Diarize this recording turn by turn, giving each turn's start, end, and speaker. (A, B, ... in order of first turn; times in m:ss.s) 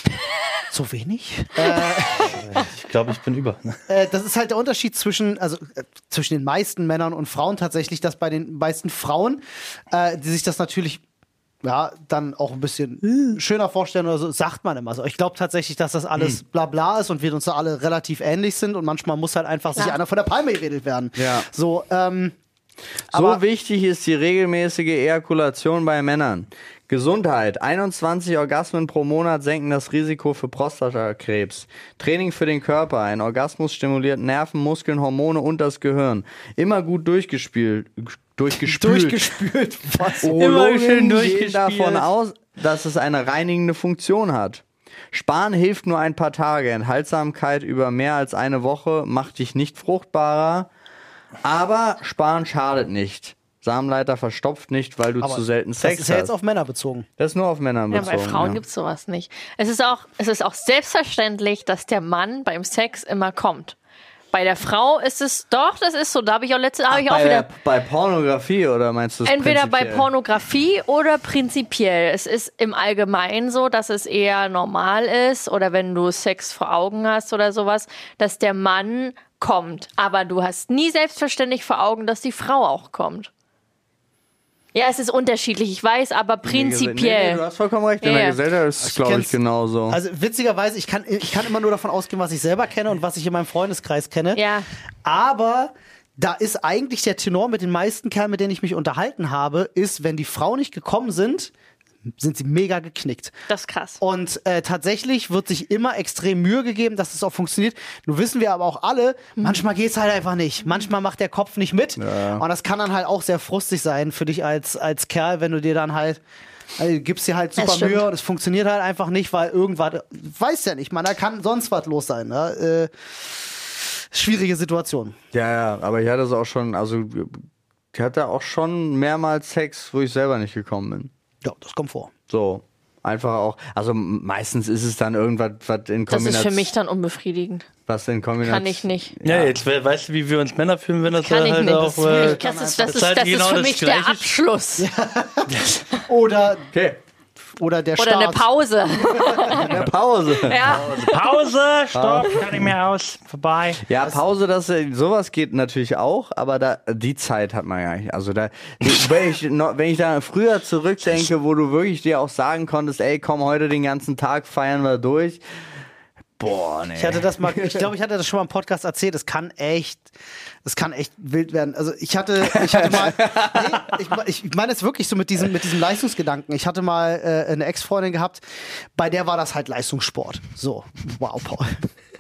0:00.7-0:02.6 A
0:02.2-0:03.8 B
0:03.9-0:11.0 A
0:11.6-0:22.4 A
0:13.1-0:13.4 B
0:21.2-0:21.5 C
0:23.1-0:23.4 A
0:23.1-0:39.3 C
0:38.6-0:40.4 A
0:40.2-0:50.7 C
0:40.3-0:42.1 B
0:51.4-0:56.3 C
0:55.2-0:57.1 A
0:57.2-0:58.6 C
0:57.9-1:03.8 D
1:04.3-1:07.5 D
1:06.9-1:10.1 C
1:09.2-1:23.3 D
1:24.7-1:27.4 D
1:26.4-1:30.0 C
1:28.0-1:28.4 D
1:28.8-1:29.4 A
1:29.9-1:34.4 A
1:34.3-1:34.7 D
1:35.0-1:41.5 A
1:42.2-1:43.3 A
1:43.5-1:44.0 D
1:44.0-1:56.2 A
1:52.0-1:52.4 C
1:56.8-2:05.2 A
1:57.6-1:58.1 D
2:05.3-2:11.1 C
2:11.4-2:12.1 A
2:12.3-2:16.7 C
2:16.1-2:17.7 D
2:17.9-2:19.6 C
2:18.4-2:19.1 D
2:19.2-2:24.3 B
2:21.1-2:24.9 D
2:22.0-2:23.1 A
2:24.8-2:26.7 A
2:25.5-2:25.8 B
2:26.7-2:27.0 C
2:27.6-2:29.7 A
2:28.0-2:29.8 D
2:29.5-2:30.9 C
2:30.4-2:31.4 D
2:30.6-2:33.8 B
2:31.9-2:32.7 C
2:33.8-2:45.4 C
2:46.4-2:47.9 C
2:47.0-2:50.1 A
2:50.6-2:58.4 A
2:52.5-2:53.8 C
2:59.0-3:01.8 A